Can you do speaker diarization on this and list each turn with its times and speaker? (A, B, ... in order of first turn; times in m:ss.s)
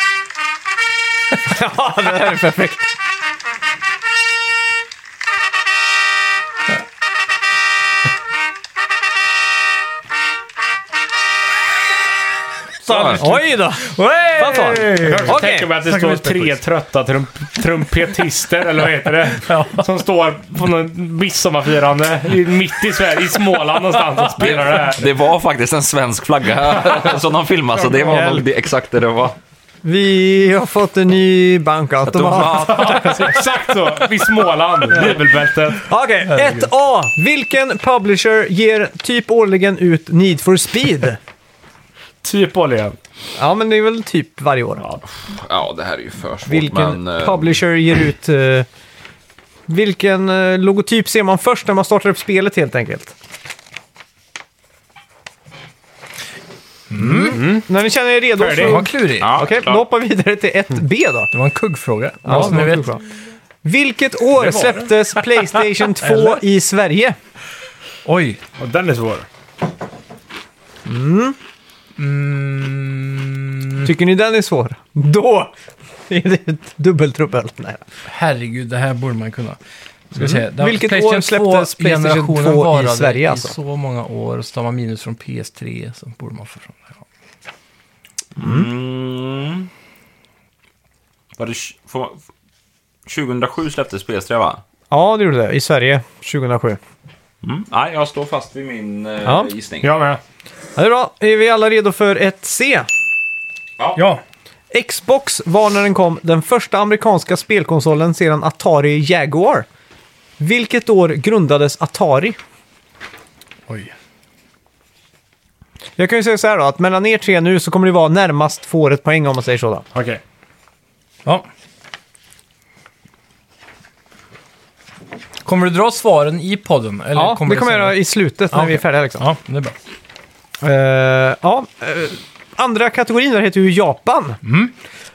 0:01.4-0:02.9 A
0:12.9-0:13.2 B
0:12.9-0:16.6 C
0:13.0-0:15.7 A
0:15.0-0:25.1 D
0:19.5-0:19.8 C
0:24.4-0:29.4 B
0:28.1-0:28.4 A
0:29.8-0:33.1 A
0:32.0-0:33.3 B
0:32.6-0:35.9 D
0:35.8-0:41.2 A
0:42.2-0:43.0 D
0:43.4-0:44.8 A
0:45.2-0:47.6 B
0:46.5-0:48.7 A
0:49.7-0:53.1 A
0:56.9-0:57.4 C
0:57.0-1:01.3 A
0:57.0-0:57.7 D
0:58.4-0:58.9 D
0:58.6-0:59.3 C
0:59.2-0:59.8 B
1:01.3-1:02.9 C
1:02.2-1:03.0 A
1:03.6-1:07.2 A
1:04.4-1:04.9 D
1:06.0-1:06.4 C
1:08.0-1:08.4 C
1:08.6-1:09.3 D
1:10.9-1:11.4 A
1:12.0-1:13.9 C
1:13.8-1:15.5 A
1:16.1-1:17.8 A
1:18.1-1:19.6 C
1:20.1-1:27.0 C
1:20.2-1:23.6 A
1:28.4-1:29.7 B
1:28.4-1:28.7 A
1:31.4-1:32.2 B
1:33.1-1:34.6 B
1:34.9-1:36.8 A
1:37.4-1:39.9 B
1:39.2-1:39.5 A
1:39.8-1:40.2 D
1:40.8-1:42.9 A
1:44.0-1:44.2 C
1:44.7-1:49.7 A
1:50.4-1:52.4 A
1:56.0-1:59.8 A
1:59.9-2:00.2 D
2:05.4-2:08.0 C
2:07.2-2:09.2 A
2:08.5-2:09.8 C
2:10.6-2:14.4 A
2:14.4-2:14.7 C